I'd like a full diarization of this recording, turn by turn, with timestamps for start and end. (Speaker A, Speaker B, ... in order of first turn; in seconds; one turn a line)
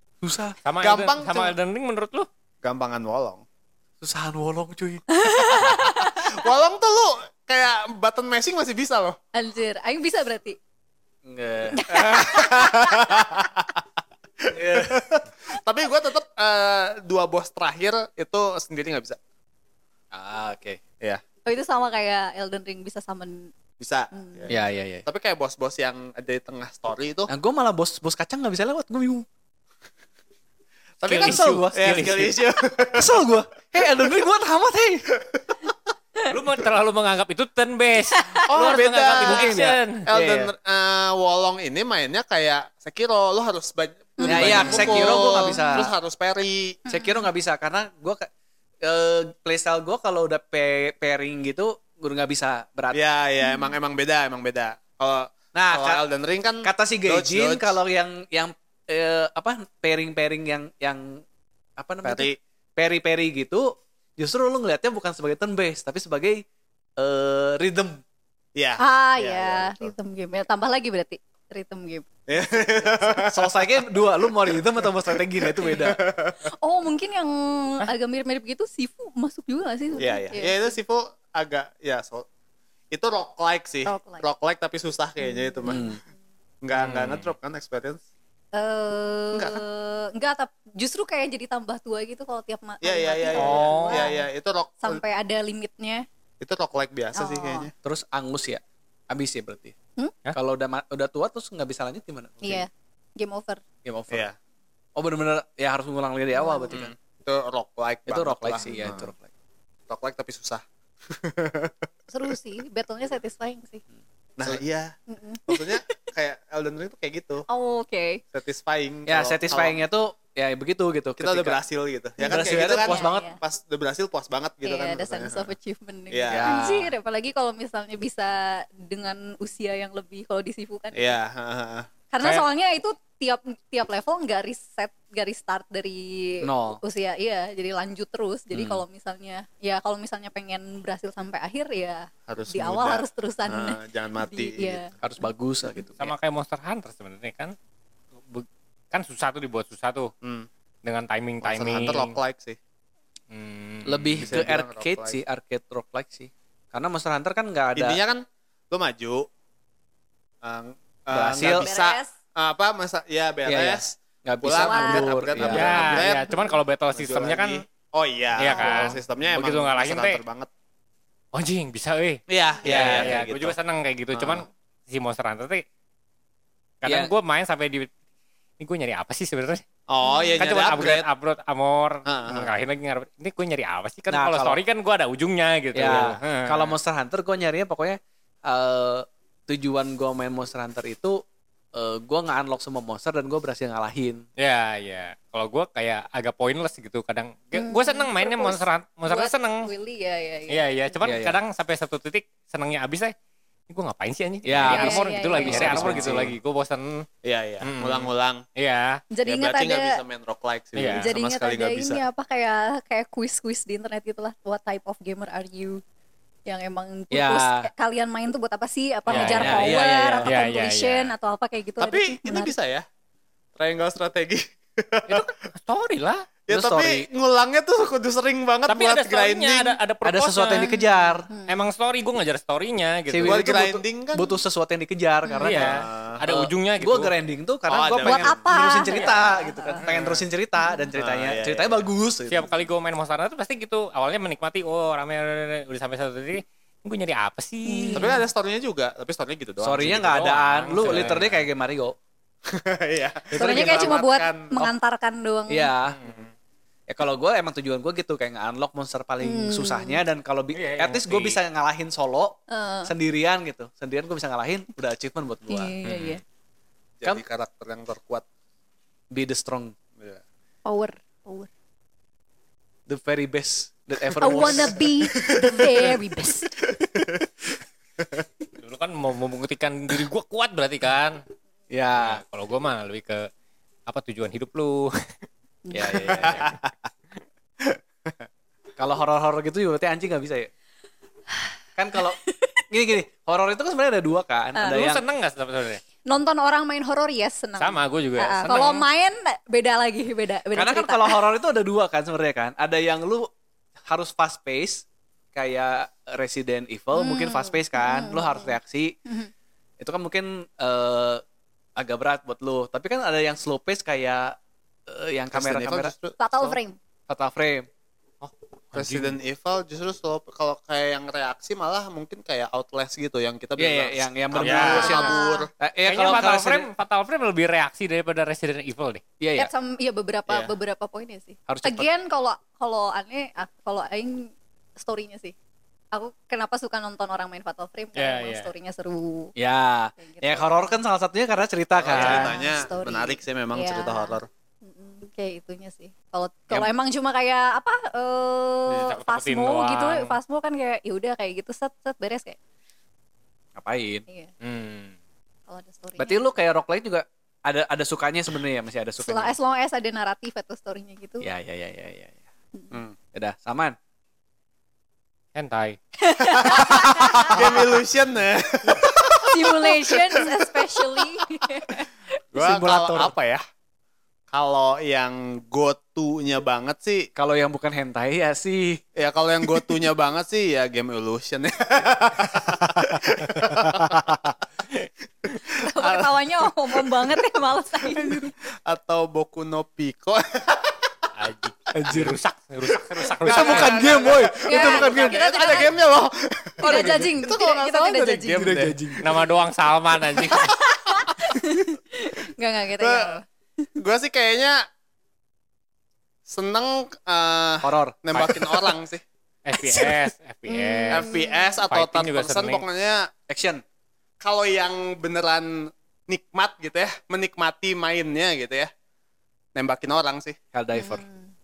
Speaker A: 0.2-0.6
Speaker B: 0.6-2.3
Speaker C: 0.8-1.5
Speaker C: 2.6-3.4
Speaker A: 4.0-5.0
Speaker D: 5.1-6.3
Speaker C: 6.1-9.2
Speaker D: 9.3-10.6
Speaker A: 11.2-11.8
Speaker D: 11.7-13.3
Speaker C: 11.9-13.8
Speaker C: 14.4-19.2
Speaker A: 14.5-15.0
Speaker A: 20.1-20.8
Speaker D: 21.4-23.5
Speaker C: 23.8-27.3
Speaker D: 24.1-24.5
Speaker A: 24.5-25.1
Speaker A: 27.3-29.2
Speaker C: 31.0-33.1
Speaker A: 31.1-32.1
Speaker B: 31.1-32.3
Speaker A: 33.0-35.1
Speaker B: 36.3-40.0
Speaker D: 38.2-38.4
Speaker C: 38.5-46.8
Speaker A: 38.5-40.5
Speaker D: 44.2-45.9
Speaker A: 44.2-45.9
Speaker A: 46.9-48.3
Speaker D: 46.9-47.3
Speaker A: 48.8-53.0
Speaker C: 52.9-57.8
Speaker D: 53.4-53.7
Speaker A: 55.5-56.0
Speaker A: 56.6-61.2
Speaker A: 61.8-66.4
Speaker C: 62.0-62.4
Speaker A: 67.0-68.0
Speaker C: 68.5-69.9
Speaker D: 68.8-72.1
Speaker C: 72.3-76.5
Speaker A: 73.2-76.0
Speaker D: 76.4-80.7
Speaker C: 80.0-82.2
Speaker C: 82.9-85.9
Speaker D: 83.8-84.2
Speaker D: 85.2-85.8
Speaker A: 85.7-86.0
Speaker C: 86.6-88.0
Speaker B: 86.7-87.3
Speaker D: 88.5-94.2
Speaker C: 89.3-89.6
Speaker C: 92.8-95.0
Speaker B: 93.3-94.1
Speaker D: 94.8-96.0
Speaker C: 96.4-97.7
Speaker D: 97.1-97.7
Speaker A: 97.8-99.8
Speaker A: 100.3-102.7
Speaker D: 102.4-103.6
Speaker A: 103.8-104.3
Speaker C: 104.1-104.3
Speaker A: 105.0-106.9
Speaker D: 106.3-106.7
Speaker C: 106.7-109.1
Speaker A: 108.1-109.3
Speaker D: 108.6-108.9
Speaker C: 109.9-112.3
Speaker D: 112.1-113.8
Speaker C: 114.4-115.0
Speaker D: 115.1-115.9
Speaker C: 115.5-117.4
Speaker D: 117.5-118.2
Speaker C: 118.3-119.8
Speaker A: 119.1-121.6
Speaker C: 121.2-125.5
Speaker D: 122.2-123.4
Speaker A: 122.2-123.3
Speaker D: 124.6-131.1
Speaker C: 126.1-126.6
Speaker A: 126.3-126.9
Speaker C: 130.9-131.9
Speaker D: 132.1-144.9
Speaker B: 132.2-132.4
Speaker A: 136.4-136.8
Speaker C: 142.3-144.9
Speaker A: 145.0-146.1
Speaker B: 146.0-147.5
Speaker B: 148.2-150.1
Speaker C: 150.2-150.5
Speaker B: 150.8-152.1
Speaker C: 151.4-152.6
Speaker B: 153.3-154.4
Speaker A: 153.8-158.0
Speaker C: 154.2-155.2
Speaker C: 157.7-159.3
Speaker C: 160.4-170.5
Speaker A: 161.1-161.7
Speaker D: 161.5-162.1
Speaker A: 163.4-166.0
Speaker D: 164.5-165.1
Speaker B: 165.4-167.6
Speaker D: 165.7-166.5
Speaker B: 168.4-170.2
Speaker D: 168.5-168.9
Speaker B: 171.3-175.6
Speaker C: 172.3-173.5
Speaker A: 172.6-173.5
Speaker C: 174.1-174.4
Speaker B: 176.8-177.9
Speaker A: 176.8-177.1
Speaker B: 178.6-179.6
Speaker C: 179.9-181.1
Speaker D: 180.0-180.4
Speaker B: 180.4-186.8
Speaker C: 182.1-182.5
Speaker A: 184.1-184.6
Speaker A: 185.7-191.2
Speaker A: 191.7-194.2
Speaker B: 194.4-199.7
Speaker D: 197.6-201.0
Speaker B: 200.5-203.1
Speaker A: 201.0-201.4
Speaker B: 203.7-207.1
Speaker A: 204.4-206.3
Speaker D: 204.6-206.1
Speaker C: 205.9-206.3
Speaker C: 207.2-208.4
Speaker B: 207.6-209.0
Speaker D: 209.1-210.0
Speaker C: 209.2-212.0
Speaker B: 210.8-211.1
Speaker D: 210.9-215.8
Speaker D: 216.4-222.5
Speaker A: 217.1-217.7
Speaker B: 219.1-221.1
Speaker A: 219.1-220.3
Speaker C: 221.8-222.8
Speaker C: 223.6-225.3
Speaker B: 225.1-226.3
Speaker C: 226.5-229.8
Speaker A: 226.5-227.1
Speaker B: 228.7-230.7
Speaker A: 230.0-231.3
Speaker D: 230.5-231.6
Speaker B: 231.4-233.4
Speaker A: 233.1-242.5
Speaker C: 233.2-234.4
Speaker D: 235.2-235.6
Speaker B: 235.4-237.1
Speaker C: 235.6-236.2
Speaker C: 237.7-238.4
Speaker D: 238.0-239.8
Speaker B: 238.8-239.2
Speaker C: 239.9-240.2
Speaker D: 240.6-240.9
Speaker C: 241.0-241.9
Speaker B: 242.3-248.1
Speaker D: 247.7-248.2
Speaker C: 247.9-250.1
Speaker A: 249.6-251.9
Speaker B: 249.8-251.4
Speaker C: 250.8-251.2
Speaker C: 252.5-254.7
Speaker A: 253.3-254.0
Speaker D: 253.3-255.7
Speaker A: 255.5-256.0
Speaker B: 255.9-256.3
Speaker A: 256.9-265.7
Speaker D: 259.2-260.0
Speaker B: 260.5-261.4
Speaker D: 262.5-262.9
Speaker D: 265.5-266.2
Speaker B: 265.8-266.2
Speaker C: 267.0-268.2
Speaker A: 269.1-269.8
Speaker C: 270.0-270.2
Speaker D: 270.6-271.5
Speaker A: 272.9-274.8
Speaker D: 274.2-276.6
Speaker C: 275.1-275.9
Speaker C: 276.6-277.2
Speaker B: 278.6-281.2
Speaker A: 281.7-282.2
Speaker B: 282.0-283.3
Speaker B: 283.9-285.0
Speaker D: 285.7-286.1
Speaker A: 285.7-286.6
Speaker B: 286.1-286.6
Speaker C: 286.4-286.6
Speaker C: 287.6-288.2
Speaker A: 288.8-290.5
Speaker A: 291.8-295.0
Speaker D: 292.0-292.5
Speaker D: 294.6-294.9
Speaker B: 294.6-295.8
Speaker D: 296.1-301.3
Speaker B: 297.6-298.9
Speaker A: 300.5-303.3
Speaker A: 303.9-308.9
Speaker D: 306.9-309.3
Speaker A: 309.8-311.2
Speaker A: 311.8-314.4
Speaker A: 314.9-315.9
Speaker C: 315.3-316.6
Speaker D: 316.2-316.8
Speaker A: 317.1-317.7
Speaker B: 318.2-319.1
Speaker C: 318.7-325.5
Speaker A: 323.6-326.7
Speaker B: 324.4-325.1
Speaker D: 324.7-325.5
Speaker B: 325.8-329.0
Speaker A: 329.2-329.5
Speaker D: 329.4-335.3
Speaker C: 330.3-330.5
Speaker A: 331.5-331.9
Speaker D: 335.9-339.3
Speaker B: 337.9-338.5
Speaker A: 339.4-342.3
Speaker D: 340.0-340.8
Speaker C: 341.8-344.3
Speaker B: 341.9-342.3
Speaker D: 342.0-352.4
Speaker B: 348.7-350.2
Speaker A: 353.6-354.1
Speaker B: 354.4-354.9
Speaker D: 355.5-356.2
Speaker A: 356.0-359.3
Speaker D: 359.0-361.3
Speaker A: 361.2-362.1
Speaker A: 363.1-363.8
Speaker B: 365.3-365.8
Speaker D: 366.0-367.4
Speaker C: 366.3-371.1
Speaker D: 369.2-371.9
Speaker C: 372.3-373.4
Speaker A: 372.3-373.1
Speaker C: 374.3-377.1
Speaker A: 377.1-378.8
Speaker C: 378.9-384.3
Speaker A: 383.5-384.0
Speaker D: 385.5-388.3
Speaker C: 385.8-386.2
Speaker C: 386.7-390.9
Speaker B: 391.1-394.0
Speaker A: 391.7-392.2
Speaker C: 392.7-398.8
Speaker A: 393.2-395.2
Speaker D: 394.4-395.7
Speaker D: 396.6-398.5
Speaker A: 396.6-397.0
Speaker A: 398.3-399.1
Speaker B: 399.0-400.5
Speaker D: 400.3-403.2
Speaker C: 400.9-401.3
Speaker C: 402.8-403.2
Speaker C: 403.8-404.6
Speaker C: 406.3-409.0
Speaker A: 407.6-408.4
Speaker B: 409.4-411.1
Speaker D: 409.6-409.9
Speaker D: 410.5-411.6
Speaker C: 410.9-413.1
Speaker B: 411.7-412.6
Speaker A: 413.3-413.6
Speaker C: 414.2-418.7
Speaker C: 419.6-420.4
Speaker A: 420.5-421.0
Speaker D: 420.7-421.3